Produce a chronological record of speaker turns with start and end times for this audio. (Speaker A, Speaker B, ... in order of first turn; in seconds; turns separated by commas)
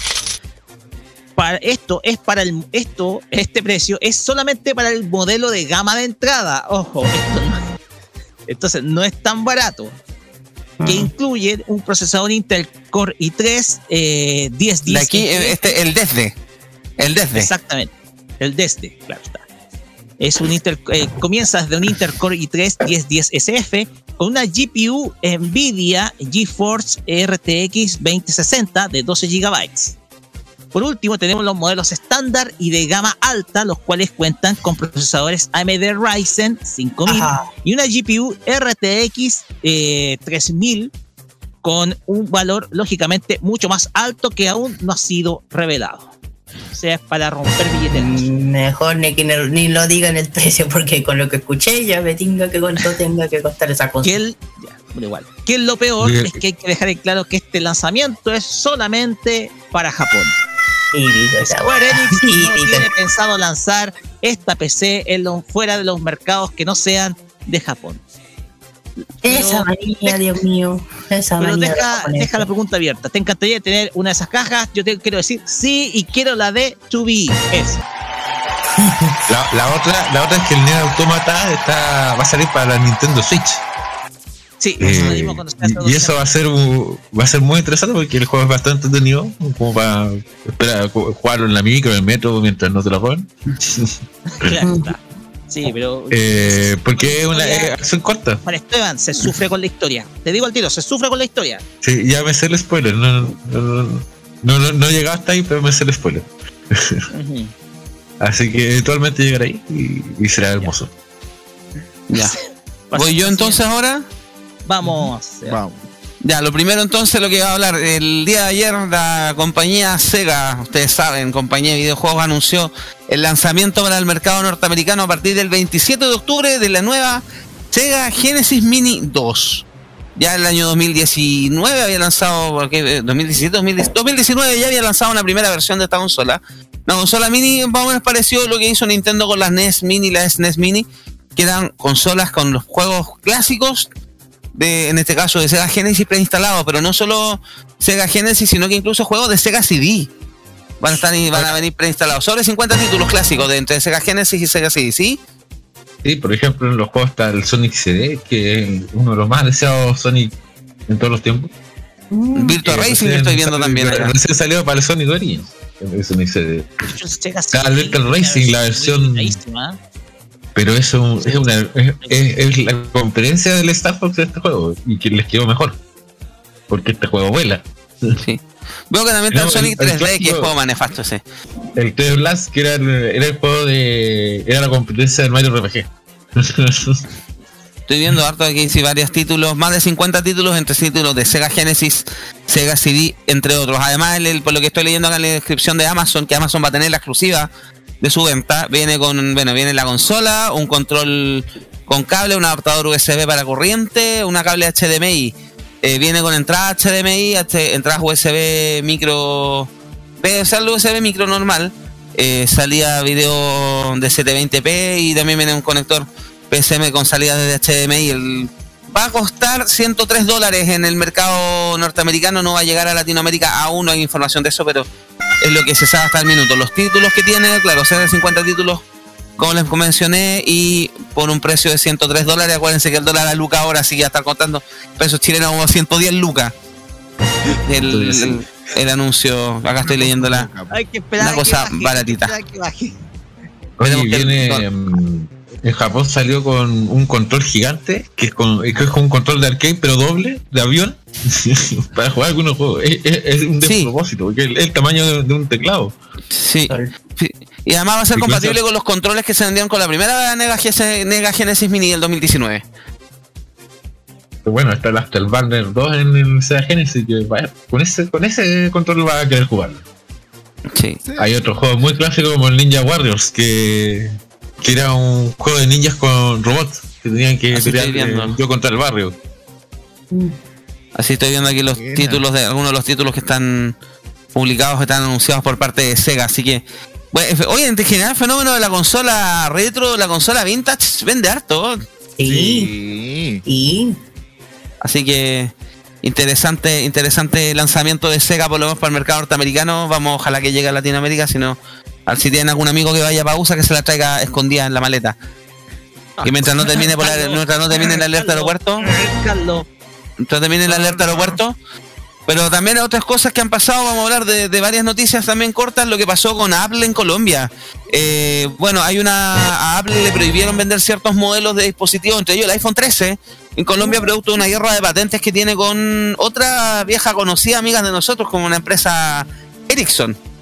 Speaker A: 1.4-7.6, Speaker A: 8.5-10.0, Speaker B: 10.8-11.1, Speaker A: 10.9-15.7, Speaker C: 14.9-16.4, Speaker C: 17.0-17.5, Speaker A: 17.4-19.4, Speaker A: 20.2-29.9, Speaker A: 30.7-40.9, Speaker B: 37.1-37.5, Speaker A: 41.6-46.1, Speaker A: 46.7-48.3, Speaker B: 47.9-54.2, Speaker A: 54.0-60.4, Speaker D: 56.0-56.4, Speaker B: 60.9-62.9, Speaker A: 61.4-68.0, Speaker A: 69.2-70.2, Speaker B: 69.2-72.5, Speaker A: 71.4-77.8, Speaker D: 79.3-83.6, Speaker A: 84.6-86.3, Speaker D: 84.8-94.5, Speaker B: 84.9-85.1, Speaker A: 94.3-97.8, Speaker B: 94.6-94.9, Speaker D: 96.1-98.4, Speaker A: 98.4-101.6, Speaker D: 101.8-107.0, Speaker A: 107.1-107.5, Speaker D: 108.2-110.9, Speaker C: 112.1-112.4, Speaker A: 112.9-113.6, Speaker C: 112.9-114.1, Speaker A: 114.7-115.6, Speaker E: 114.8-115.8, Speaker C: 116.2-143.9, Speaker C: 144.5-150.1, Speaker C: 150.8-155.2, Speaker D: 156.0-160.3, Speaker D: 160.9-161.5, Speaker B: 162.1-162.6, Speaker C: 162.3-164.1, Speaker D: 162.6-166.7, Speaker A: 166.9-169.8, Speaker D: 167.5-169.4, Speaker D: 170.6-175.8, Speaker A: 171.2-171.5, Speaker D: 176.7-178.2, Speaker C: 178.2-181.2, Speaker D: 179.3-180.5, Speaker D: 181.8-187.0, Speaker C: 187.9-197.5, Speaker C: 198.0-224.9, Speaker C: 225.4-228.8, Speaker C: 229.4-236.5, Speaker C: 237.7-240.5, Speaker D: 237.9-238.4, Speaker E: 239.8-240.8, Speaker A: 240.7-243.0, Speaker C: 241.2-242.3, Speaker D: 243.8-256.0, Speaker C: 243.9-244.6, Speaker C: 253.6-253.9, Speaker C: 256.3-262.6, Speaker D: 258.1-258.6, Speaker D: 264.4-269.8, Speaker C: 270.7-271.0, Speaker E: 271.1-271.4, Speaker D: 271.2-279.1, Speaker C: 277.5-278.3, Speaker B: 280.1-280.4, Speaker C: 281.0-283.8, Speaker E: 281.5-282.2, Speaker C: 284.4-291.9, Speaker B: 292.2-292.7, Speaker E: 292.2-293.4, Speaker B: 293.5-294.0, Speaker C: 294.8-305.1, Speaker C: 306.2-308.9, Speaker A: 306.9-309.7, Speaker C: 310.2-311.6, Speaker A: 310.7-311.3, Speaker C: 312.3-330.2, Speaker B: 323.8-324.1